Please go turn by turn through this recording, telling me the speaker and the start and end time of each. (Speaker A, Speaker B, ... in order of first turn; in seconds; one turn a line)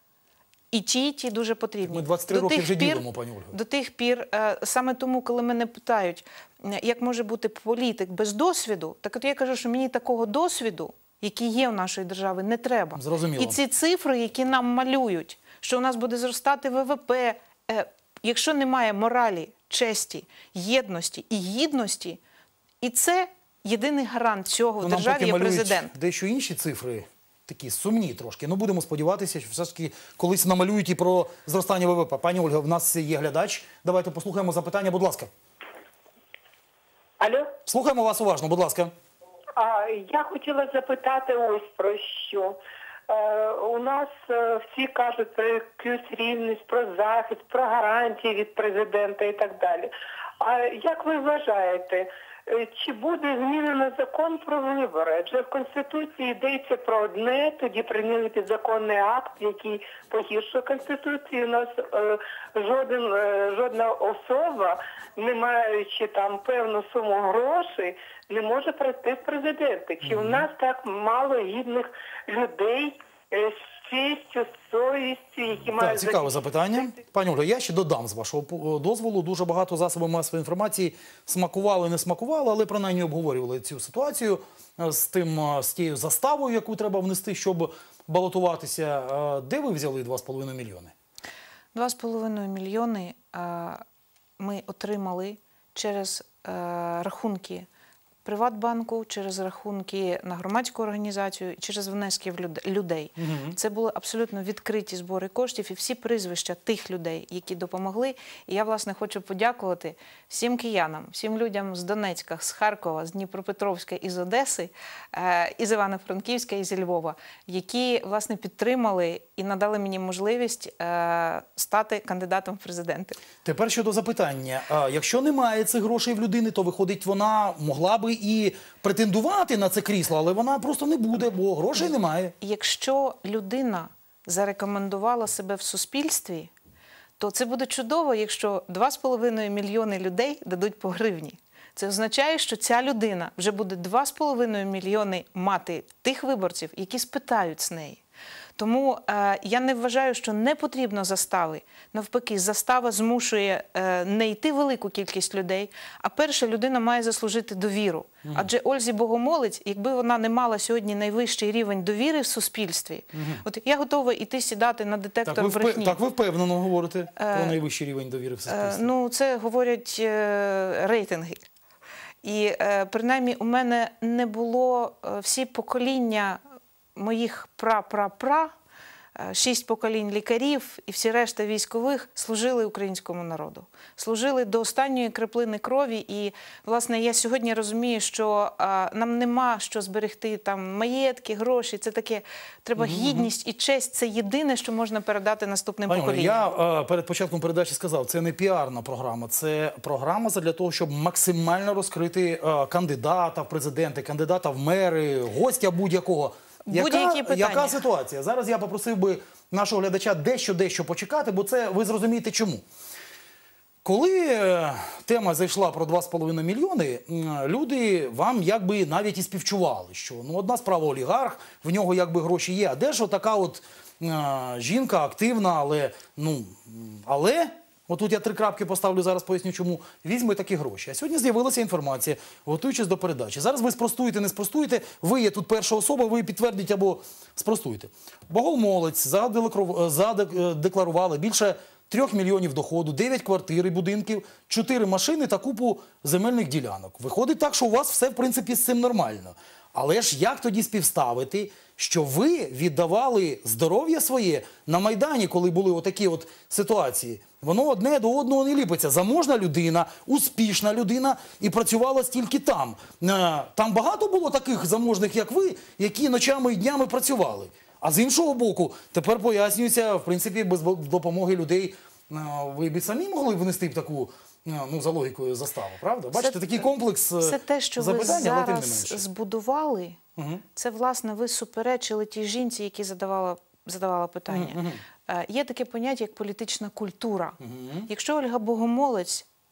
Speaker A: 0.7-22.2
Speaker B: 1.9-3.6
Speaker B: 13.0-13.6
Speaker A: 22.8-25.9
Speaker B: 24.8-35.3
Speaker C: 37.2-37.5
Speaker B: 37.6-38.9
Speaker C: 39.6-76.4
Speaker B: 70.0-70.5
Speaker B: 75.8-90.9
Speaker A: 91.7-93.8
Speaker A: 94.4-97.7
Speaker A: 98.2-123.2
Speaker B: 103.2-103.6
Speaker B: 123.4-132.3
Speaker A: 132.4-136.5
Speaker A: 137.2-148.0
Speaker A: 148.6-166.0
Speaker B: 163.2-163.4
Speaker B: 165.2-168.9
Speaker A: 167.2-167.6
Speaker A: 168.5-171.4
Speaker A: 172.2-176.4
Speaker A: 177.0-178.5
Speaker A: 179.2-196.5
Speaker B: 192.8-193.3
Speaker B: 195.9-212.7
Speaker A: 206.7-207.8
Speaker B: 213.8-279.0
Speaker A: 276.1-280.0
Speaker B: 280.2-280.4
Speaker A: 280.6-287.4
Speaker B: 284.3-284.8
Speaker B: 287.4-287.9
Speaker A: 287.9-289.3